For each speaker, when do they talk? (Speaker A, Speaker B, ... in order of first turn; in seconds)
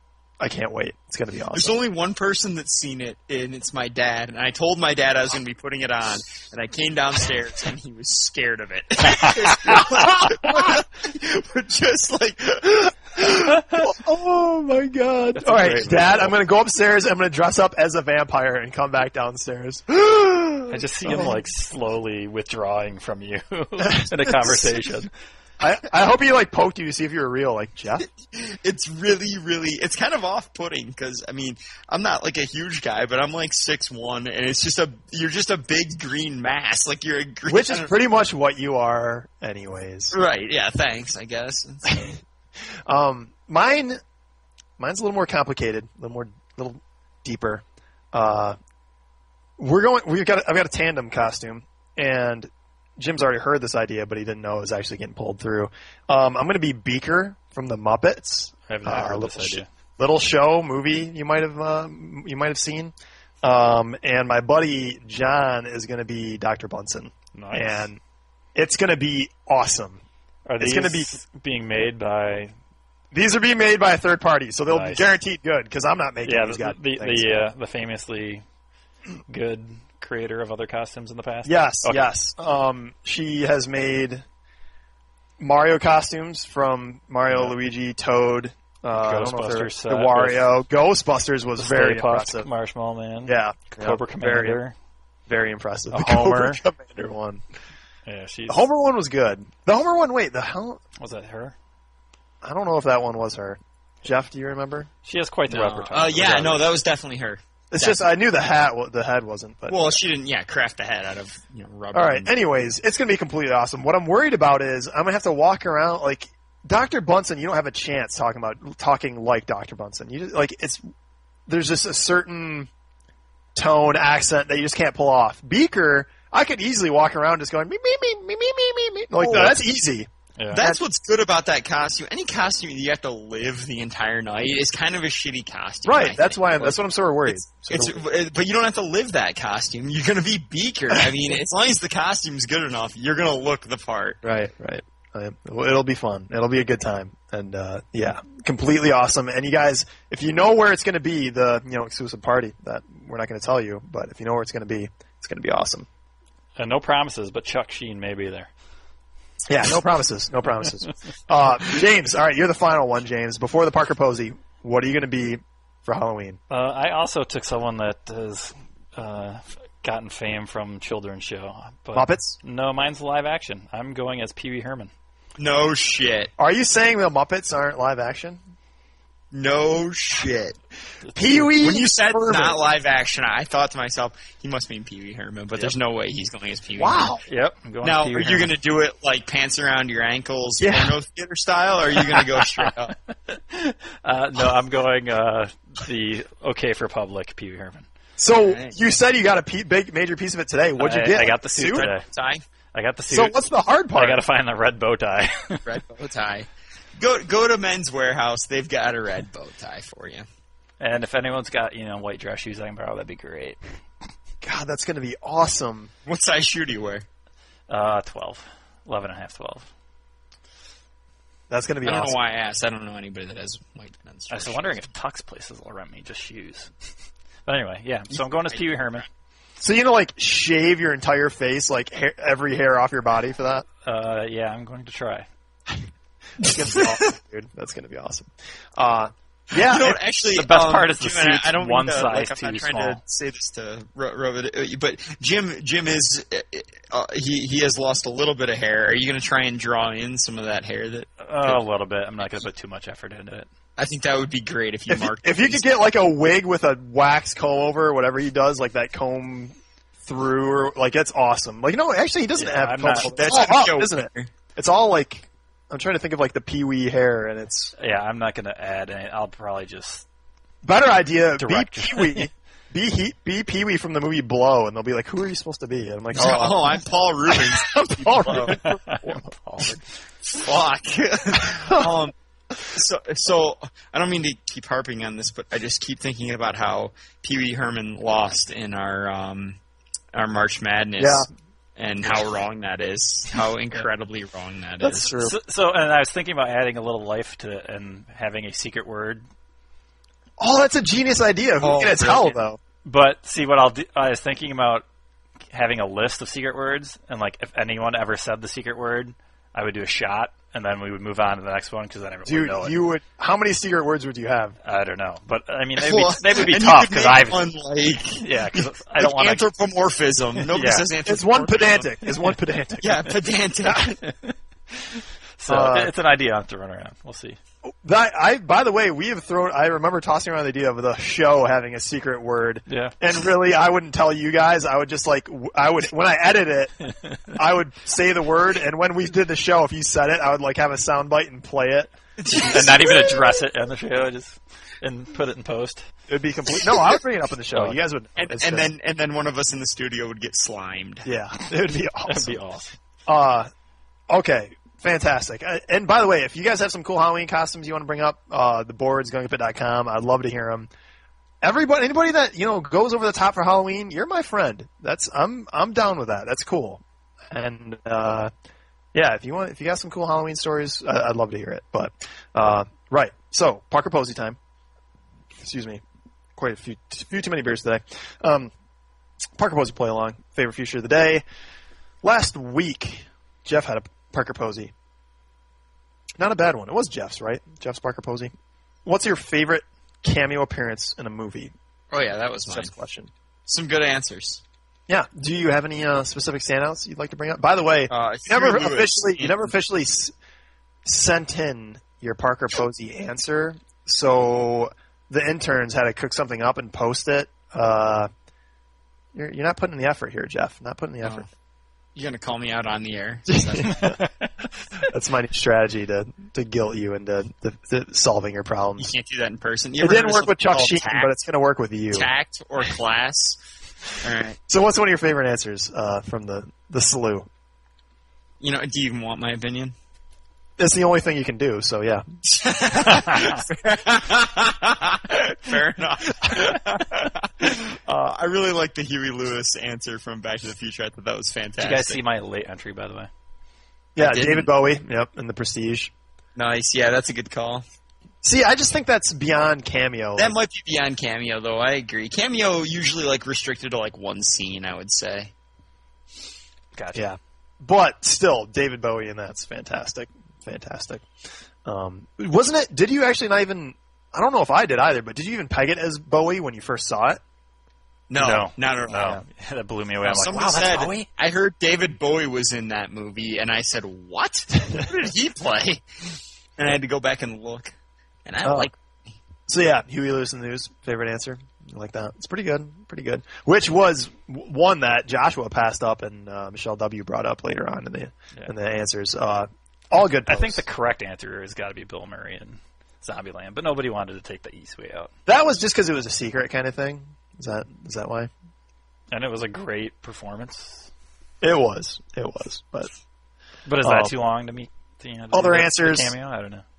Speaker A: 0.4-1.8, 9.7-10.3, 13.1-21.4, 23.8-24.7, 25.6-28.1, 37.5-40.1, 42.9-44.0, 44.8-48.5, 49.6-68.0, 68.5-70.0, 70.6-71.2, 73.1-77.5, 81.4-84.2, 85.4-92.5, 93.2-94.6, 95.3-97.4, 98.5-100.8, 102.4-104.9, 107.7-110.0, 111.9-120.8, 121.5-122.7, 123.5-130.8, 135.8-138.0, 144.2-155.9, 159.5-166.4, 171.9-172.4, 176.4-178.4, 181.1-182.6, 186.8-187.2, 190.6-190.9, 198.2-201.9, 203.1-204.2, 214.4-215.9, 221.5-222.2, 229.6-233.7, 236.4-240.0, 254.9-267.7, 270.6-279.7, 281.6-281.9, 291.0-291.3, 294.8-295.3, 300.4-302.6, 312.2-314.6, 321.0-323.1, 323.6-323.9, 325.5-325.9, 327.7-342.8, 346.1-348.7, 351.0-352.4, 353.1-353.5, 354.1-360.7, 361.4-368.3, 368.9-374.4, 375.4-375.8, 376.4-378.5, 379.4-381.2, 382.0-384.7, 386.2-388.3, 388.8-391.5, 392.5-393.1, 394.9-400.1, 400.8-408.1, 409.1-411.2, 413.3-413.9, 414.8-418.9, 419.8-422.1, 424.5-427.3, 430.6-432.0, 443.9-445.9, 448.2-450.3, 456.9-461.1, 461.6-467.2, 478.4-478.7, 479.5-490.6, 495.3-498.3, 501.4-502.9, 503.8-504.1, 505.3-506.1
Speaker B: 1.5-13.2, 28.3-37.9, 40.1-42.1, 105.5-108.0, 109.7-112.3, 129.2-129.6, 130.5-144.2, 175.4-176.3, 179.3-180.6, 181.3-187.1, 187.8-192.9, 198.3-198.8, 201.7-202.4, 205.7-210.2, 216.1-217.0, 221.8-224.7, 239.5-251.6, 253.8-255.7, 263.0-264.3, 276.1-278.6, 280.3-289.6, 290.1-295.1, 301.6-302.4, 315.8-322.1, 322.8-324.0, 342.2-343.2, 348.2-351.1, 391.9-392.7, 393.5-394.4, 397.9-399.5, 411.9-413.9, 418.8-421.1, 421.9-423.4, 424.0-424.4, 428.4-429.7, 432.2-442.0, 444.0-444.5, 446.4-447.6, 450.2-455.3, 468.1-469.2, 470.0-475.8, 476.6-477.7, 478.2-478.7
Speaker C: 15.4-16.3, 20.7-25.1, 58.7-59.7, 67.3-67.9, 70.5-72.5, 74.7-75.1, 76.2-78.4, 79.3-82.0, 87.3-87.5, 89.0-90.5, 91.6-94.7, 95.9-96.6, 98.0-98.7, 101.0-101.5, 105.0-106.7, 156.6-158.5, 166.5-174.9, 187.3-188.5, 192.4-192.7, 193.3-197.9, 200.8-202.0, 202.7-203.4, 203.9-205.7, 210.8-213.6, 217.7-219.7, 224.3-226.7, 227.4-229.1, 233.8-235.3, 240.3-243.0, 251.2-253.5, 262.4-263.1, 267.8-270.0, 271.4-272.3, 278.3-279.8, 295.1-299.2, 302.8-304.9, 305.5-312.8, 314.6-317.5, 318.1-319.5, 320.4-320.9, 324.0-324.3, 325.4-327.4, 332.7-332.9, 336.9-337.2, 342.4-345.9, 347.5-347.8, 352.1-352.7, 413.7-414.3, 441.6-443.1, 456.7-457.1, 468.2-471.1, 490.3-495.1, 499.1-500.9, 503.6-506.6